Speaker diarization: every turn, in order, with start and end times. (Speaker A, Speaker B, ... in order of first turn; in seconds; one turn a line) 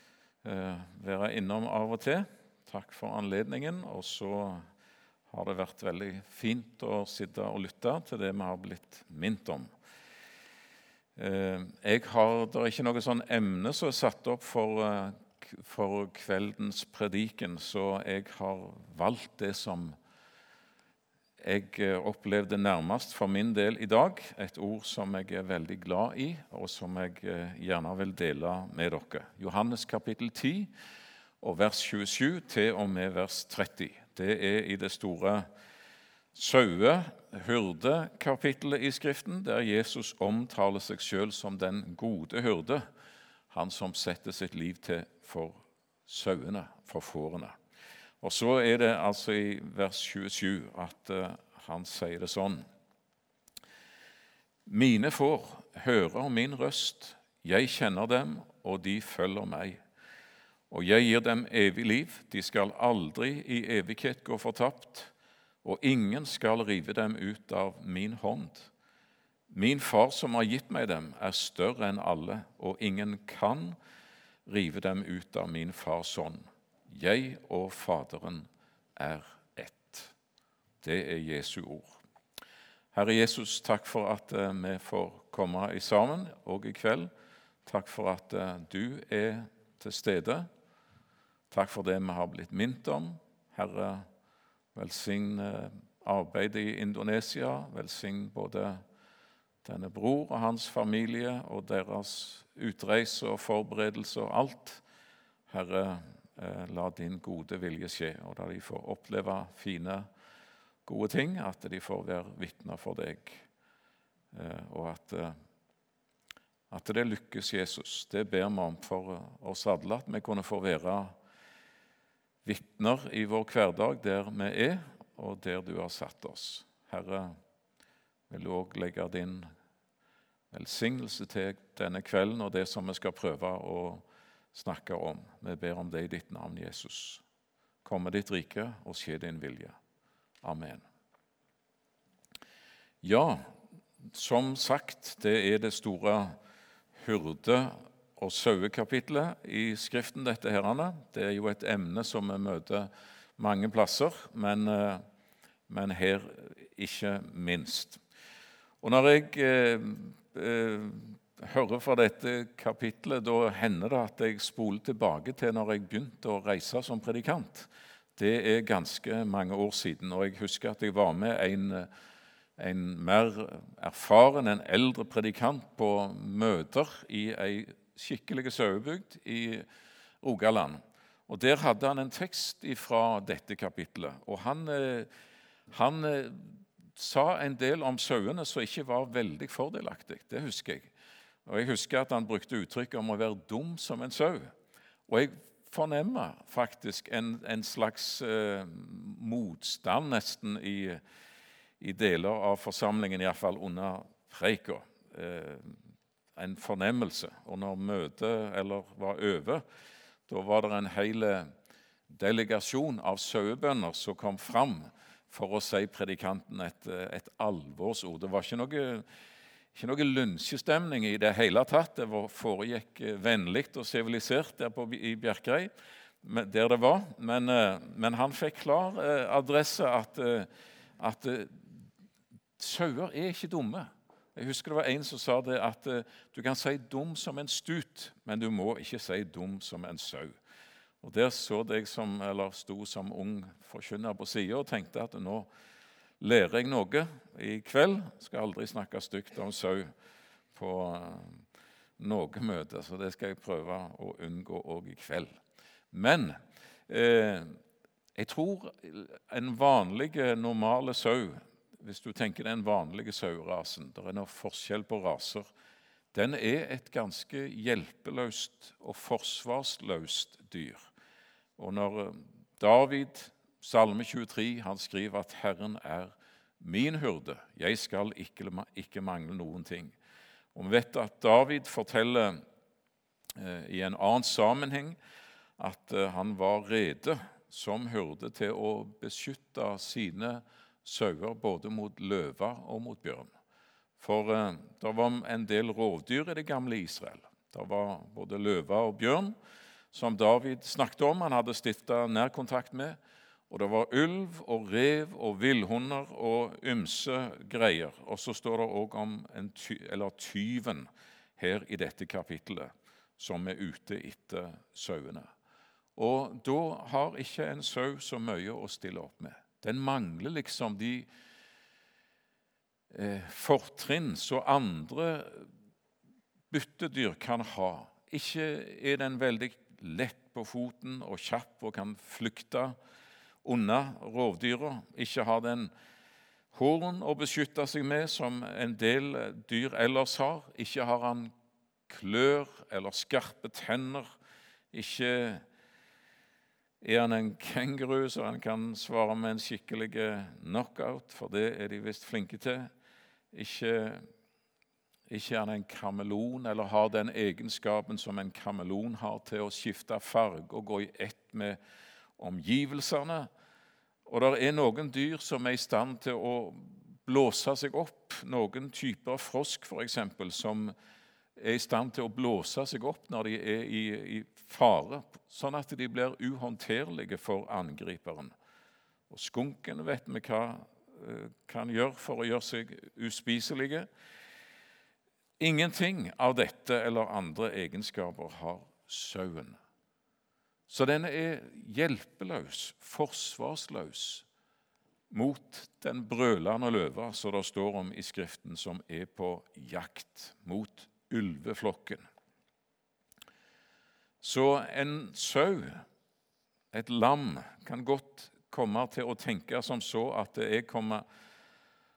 Speaker A: 0.4-4.6
Speaker A: 5.3-9.7
Speaker A: 11.2-19.9
Speaker A: 21.4-30.7
Speaker A: 31.4-35.5
Speaker A: 36.3-42.9
Speaker A: 43.5-47.6
Speaker A: 48.2-52.6
Speaker A: 54.7-59.8
Speaker A: 60.7-65.1
Speaker A: 65.6-68.7
Speaker A: 69.5-73.8
Speaker A: 74.5-80.1
Speaker A: 80.8-82.0
Speaker A: 82.9-87.1
Speaker A: 87.6-90.5
Speaker A: 91.5-94.1
Speaker A: 94.7-98.8
Speaker A: 99.6-104.8
Speaker A: 105.5-110.1
Speaker A: 110.8-113.4
Speaker A: 114.3-115.3
Speaker A: 116.7-121.1
Speaker A: 122.4-127.4
Speaker A: 128.3-129.5
Speaker A: 130.5-137.2
Speaker A: 137.8-139.8
Speaker A: 140.4-140.8
Speaker A: 143.0-143.5
Speaker A: 144.0-146.4
Speaker A: 147.0-155.0
Speaker A: 155.7-158.0
Speaker A: 158.8-171.9
Speaker A: 172.6-179.7
Speaker A: 180.2-185.1
Speaker A: 185.7-190.9
Speaker A: 191.4-194.5
Speaker A: 195.1-201.0
Speaker A: 201.8-205.8
Speaker A: 206.4-209.6
Speaker A: 210.3-211.5
Speaker A: 212.1-219.1
Speaker A: 219.7-225.7
Speaker A: 226.2-231.9
Speaker A: 232.6-240.3
Speaker A: 241.0-245.5
Speaker A: 246.2-249.9
Speaker A: 250.5-251.4
Speaker A: 252.0-255.3
Speaker A: 255.9-257.6
Speaker A: 258.1-265.5
Speaker A: 266.1-270.9
Speaker A: 271.6-279.9
Speaker A: 280.5-282.4
Speaker A: 283.4-285.0
Speaker A: 285.6-293.3
Speaker A: 294.0-299.3
Speaker A: 299.9-303.0
Speaker A: 303.5-315.3
Speaker A: 315.9-321.1
Speaker A: 322.9-325.5
Speaker A: 326.5-332.8
Speaker A: 333.4-335.7
Speaker A: 336.5-341.3
Speaker A: 341.9-344.1
Speaker A: 344.7-345.4
Speaker A: 346.8-352.7
Speaker A: 353.3-354.0
Speaker A: 355.1-361.6
Speaker A: 362.2-363.3
Speaker A: 364.1-370.7
Speaker A: 371.4-378.3
Speaker A: 379.1-383.9
Speaker A: 385.4-389.6
Speaker A: 390.7-394.2
Speaker A: 395.1-402.0
Speaker A: 404.2-405.8
Speaker A: 406.7-411.0